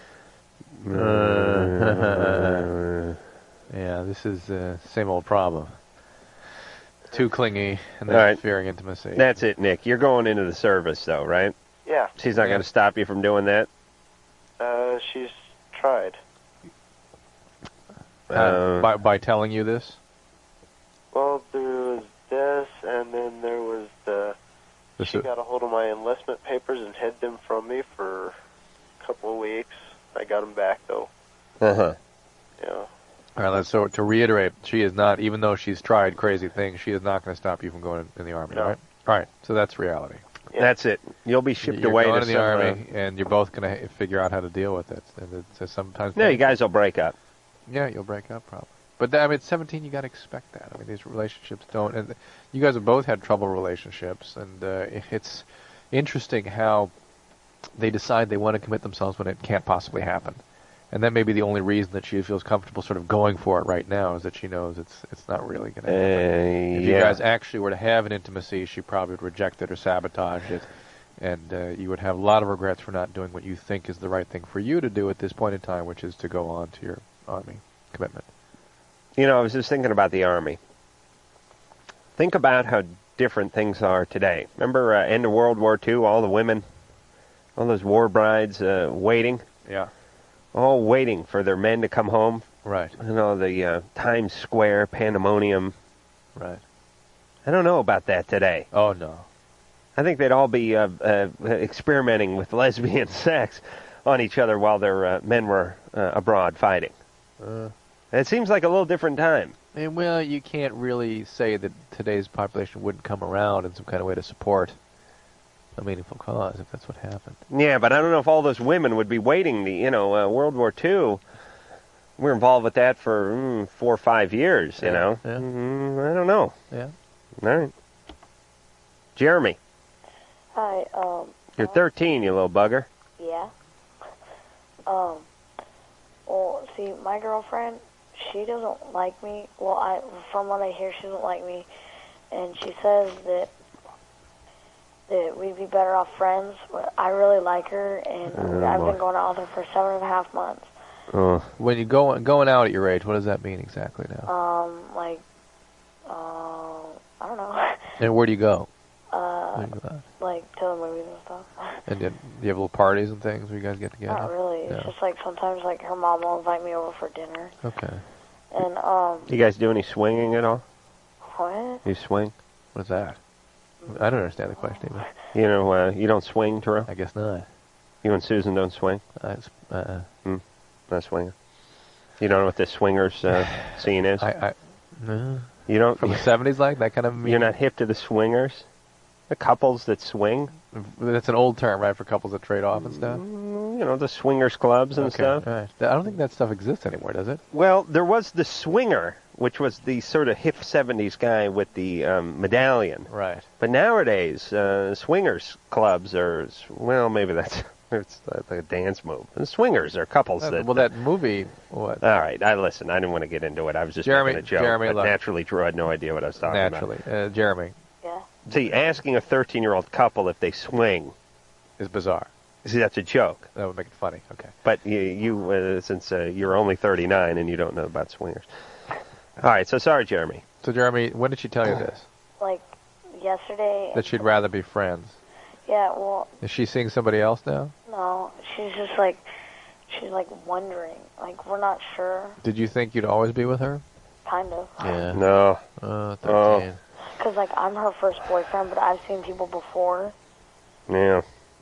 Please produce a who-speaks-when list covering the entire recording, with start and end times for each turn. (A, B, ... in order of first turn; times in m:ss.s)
0:00.8-0:03.2 A
0:00.9-0:02.6 B
0:03.7-0:05.8 B
0:07.1-0:09.3 B
0:08.1-0:08.4 A
0:09.1-0:11.5 A
0:11.8-0:12.1 C
0:12.2-0:13.7 A
0:12.4-0:12.6 B
0:14.6-0:16.2 C
0:18.3-0:18.9 A
0:18.3-0:20.0 B
0:21.1-0:24.4 C
0:25.0-0:25.3 B
0:25.0-0:28.3 C
0:29.0-0:31.1 C
0:31.6-0:32.0 A
0:32.6-0:32.9 C
0:33.4-0:40.2 B
0:40.6-0:42.8 A
0:41.6-0:46.5 B
0:46.2-0:47.1 A
0:47.7-0:56.9 B
0:57.8-1:18.3 B
1:05.9-1:07.2 A
1:19.2-1:20.6 A
1:22.2-1:26.6 A
1:27.6-1:29.4 A
1:30.5-1:32.5 A
1:32.6-1:33.0 B
1:33.0-1:35.7 A
1:36.4-1:36.6 B
1:37.4-1:38.7 A
1:38.7-1:39.2 B
1:40.0-1:46.9 A
1:47.4-1:47.7 B
1:48.1-1:49.5 A
1:49.7-1:54.8 B
1:55.8-1:57.4 B
1:57.5-2:01.2 A
2:02.2-2:06.5 A
2:04.8-2:05.4 B
2:07.4-2:07.7 A
2:09.2-2:09.6 A
2:10.5-2:11.8 D
2:11.6-2:12.9 A
2:13.2-2:13.5 D
2:14.8-2:15.2 D
2:16.3-2:21.7 D
2:22.3-2:23.5 D
2:25.1-2:30.7 D
2:28.3-2:29.0 A
2:31.1-2:31.5 A
2:31.6-2:34.3 B
2:34.2-2:35.2 D
2:36.1-2:37.9 D
2:38.0-2:38.7 B
2:39.1-2:41.8 D
2:39.5-2:40.0 B
2:41.8-2:44.9 B
2:44.1-2:47.6 D
2:47.6-2:48.0 B
2:48.5-2:49.3 D
2:49.3-2:50.6 A
2:51.3-2:51.8 D
2:51.8-2:52.3 A
2:52.7-2:53.2 B
2:53.9-2:55.1 B
2:54.6-2:54.8 D
2:55.3-2:56.9 A
2:56.9-2:57.5 B
2:58.0-2:59.0 A
2:59.2-3:00.1 B
3:00.2-3:01.3 A
3:02.2-3:04.3 A
3:03.5-3:07.5 B
3:05.7-3:06.2 A
3:07.2-3:08.7 A
3:09.3-3:10.5 A
3:10.7-3:13.2 B
3:12.8-3:15.4 A
3:15.0-3:17.4 B
3:17.5-3:30.9 A
3:23.1-3:23.4 B
3:30.4-3:32.0 B
3:32.0-3:36.9 A
3:34.0-3:35.2 B
3:36.4-3:37.8 B
3:38.5-3:41.1 A
3:41.8-3:42.3 B
3:42.6-3:43.5 A
3:43.5-3:44.5 B
3:44.6-3:48.5 A
3:49.4-3:50.4 A
3:50.6-3:52.1 B
3:52.4-3:54.1 D
3:53.9-3:55.2 B
3:55.6-3:56.3 D
3:56.4-3:57.7 B
3:57.8-3:59.2 D
3:59.9-4:02.4 D
4:02.4-4:03.8 B
4:04.2-4:05.0 D
4:04.8-4:05.2 B
4:05.1-4:05.6 A
4:05.8-4:06.8 B
4:06.2-4:06.7 A
4:07.2-4:10.1 D
4:10.9-4:11.2 A